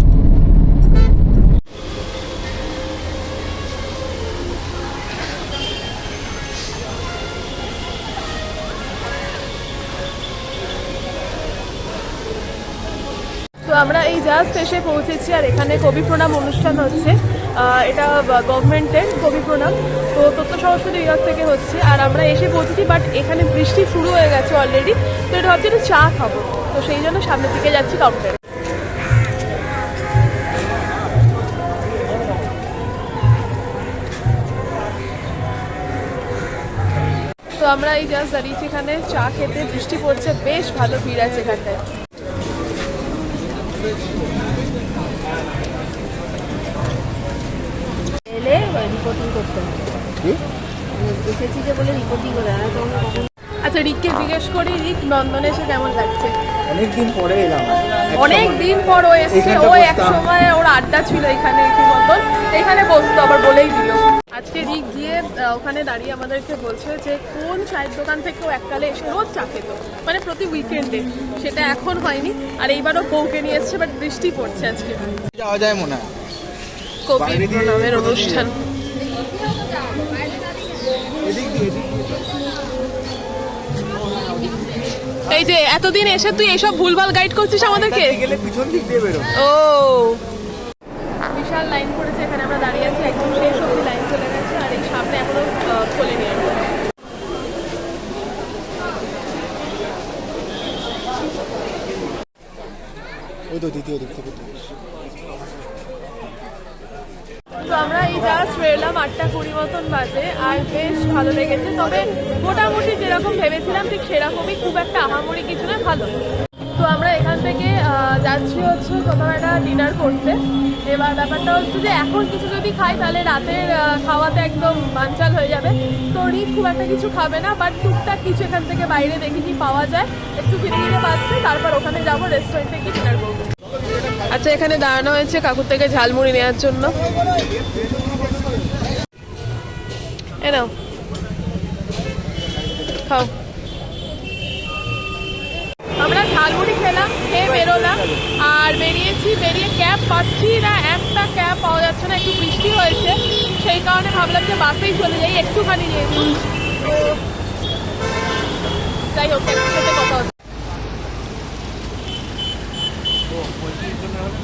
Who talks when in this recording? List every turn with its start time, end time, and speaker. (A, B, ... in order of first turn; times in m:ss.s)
0:13.6-0:28.4 A
0:37.6-0:41.8 A
0:48.3-0:50.0 B
0:50.9-0:53.3 B
0:53.6-0:56.3 A
0:56.7-0:58.7 C
0:58.1-1:15.1 A
0:59.3-1:00.2 C
1:15.3-1:16.1 C
1:17.0-1:18.6 A
1:17.2-1:18.5 C
1:19.6-1:20.7 B
1:21.2-1:22.1 C
1:25.3-1:28.3 A
1:27.7-1:29.4 C
1:29.3-1:30.2 A
1:31.3-1:36.7 A
1:43.5-1:44.5 C
1:47.6-1:56.1 A
1:56.8-2:13.5 A
2:14.2-2:17.0 A
2:20.4-2:20.7 A
2:23.0-2:23.3 A
2:26.0-2:37.1 A
2:39.1-2:40.3 A